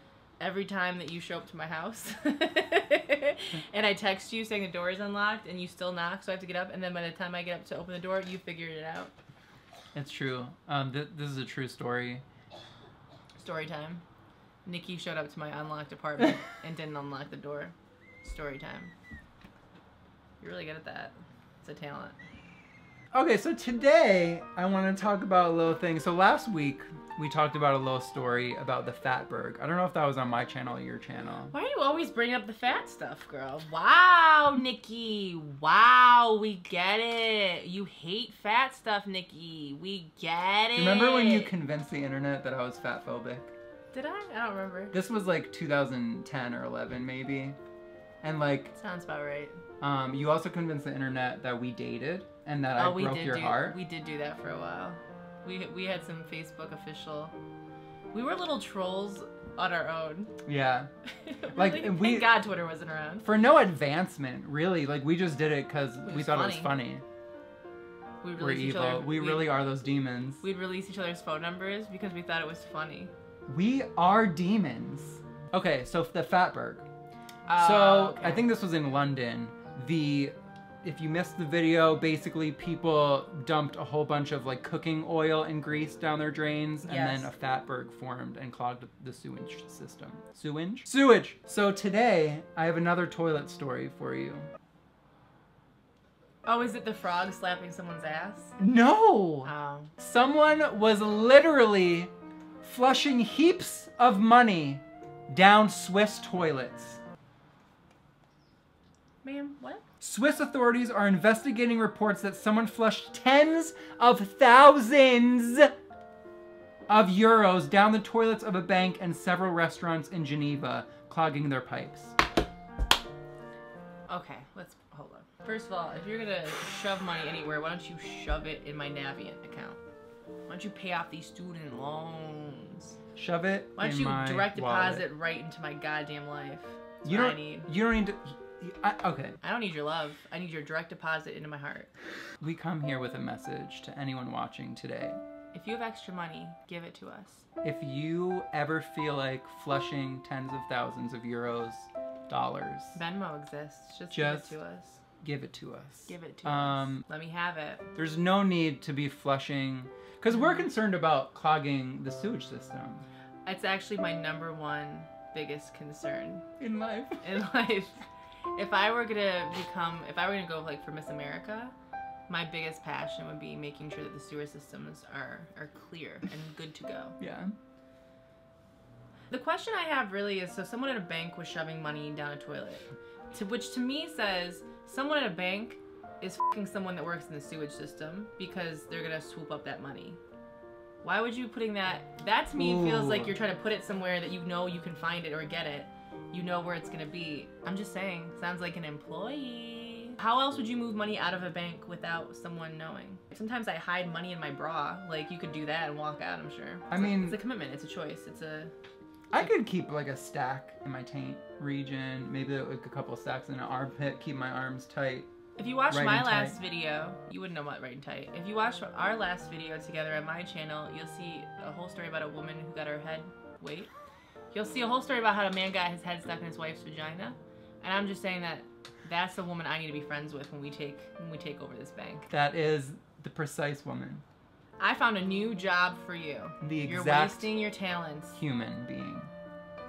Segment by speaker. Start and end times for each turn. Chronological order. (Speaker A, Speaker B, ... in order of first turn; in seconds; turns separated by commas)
Speaker A: 0.4-9.1, Speaker B: 9.9-12.2, Speaker A: 13.4-14.0, Speaker A: 14.7-18.9, Speaker A: 20.4-22.1, Speaker B: 23.1-31.5, Speaker A: 31.5-41.5, Speaker B: 40.7-43.5, Speaker A: 43.9-44.9, Speaker B: 44.9-47.6, Speaker B: 48.2-48.7, Speaker A: 48.7-49.6, Speaker B: 49.8-53.8, Speaker A: 52.8-57.3, Speaker A: 58.1-60.3, Speaker B: 60.5-60.9, Speaker A: 61.2-63.3, Speaker B: 61.5-62.4, Speaker B: 63.2-67.0, Speaker A: 66.0-66.7, Speaker A: 68.2-69.5, Speaker B: 68.4-70.4, Speaker A: 70.4-73.1, Speaker B: 73.5-76.8, Speaker A: 77.5-78.5, Speaker B: 77.6-94.5, Speaker A: 86.8-87.3, Speaker A: 96.5-98.5, Speaker B: 98.6-107.0, Speaker A: 99.4-99.9, Speaker A: 109.2-109.8, Speaker B: 110.0-115.7, Speaker B: 116.9-122.1, Speaker A: 124.1-129.8, Speaker A: 130.5-133.0, Speaker B: 133.2-135.1, Speaker A: 133.8-137.7, Speaker B: 137.0-139.4, Speaker A: 139.4-141.9, Speaker B: 142.4-145.2, Speaker A: 145.5-147.4, Speaker B: 147.6-153.0, Speaker A: 152.9-155.0, Speaker B: 154.1-154.6, Speaker B: 155.2-157.0, Speaker A: 156.1-157.8, Speaker B: 157.9-163.1, Speaker A: 160.3-160.6, Speaker A: 163.4-166.4, Speaker B: 166.6-167.3, Speaker A: 167.2-168.0, Speaker A: 168.5-171.7, Speaker A: 172.3-177.2, Speaker B: 177.2-177.5, Speaker A: 179.3-190.2, Speaker A: 191.0-208.7, Speaker B: 192.5-193.4, Speaker B: 206.9-207.4, Speaker B: 209.3-215.3, Speaker A: 215.6-223.9, Speaker B: 215.9-216.6, Speaker A: 224.5-232.3, Speaker B: 232.3-234.2, Speaker A: 234.8-238.4, Speaker B: 236.6-237.5, Speaker B: 238.3-239.3